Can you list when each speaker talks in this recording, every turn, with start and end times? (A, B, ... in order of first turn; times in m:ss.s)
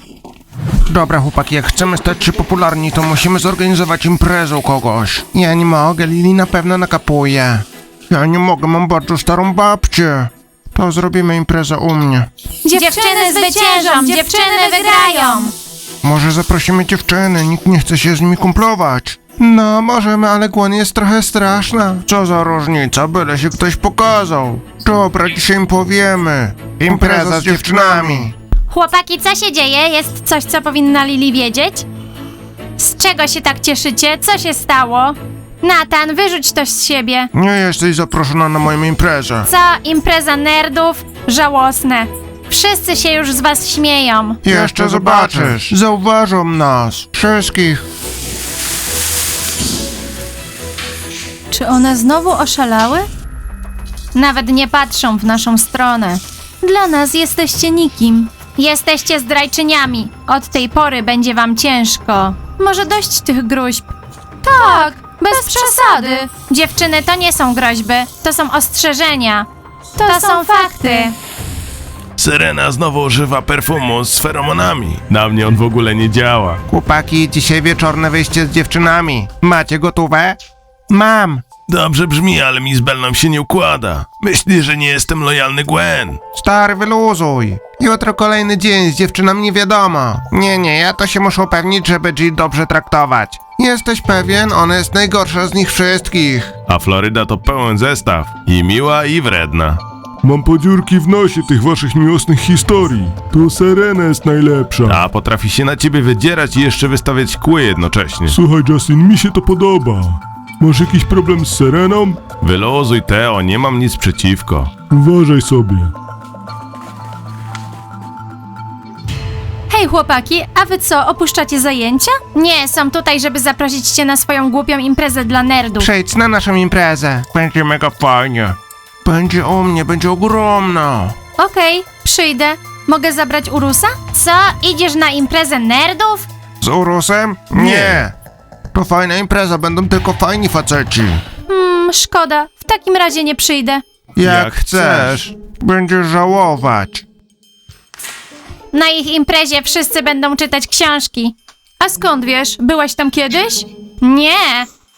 0:00.9-0:12.3 A
0:12.6-0:15.5 B
0:12.8-0:15.2 C
0:16.0-0:28.3 A
0:26.9-0:28.2 D
0:28.7-0:31.8 B
0:32.8-0:37.3 B
0:37.3-0:39.5 A
0:39.4-0:44.4 B
0:44.4-0:47.8 A
0:44.5-0:45.7 D
0:51.5-0:53.1 B
0:54.1-1:03.9 B
1:04.4-1:11.1 B
1:10.0-1:11.1 C
1:12.2-1:16.6 D
1:16.7-1:20.4 A
1:20.9-1:21.4 A
1:21.7-1:26.2 D
1:26.3-1:36.5 A
1:36.7-1:39.8 D
1:40.2-1:45.0 C
1:44.8-1:48.4 D
1:48.2-1:52.2 C
1:52.4-1:54.7 D
1:54.9-1:55.9 C
1:59.7-2:05.9 B
2:05.8-2:11.1 A
2:11.4-2:16.3 B
2:16.6-2:18.1 A
2:17.5-2:18.0 D
2:18.7-2:21.2 A
2:21.5-2:23.8 B
2:24.2-2:27.0 A
2:24.2-2:25.2 D
2:28.7-2:34.7 B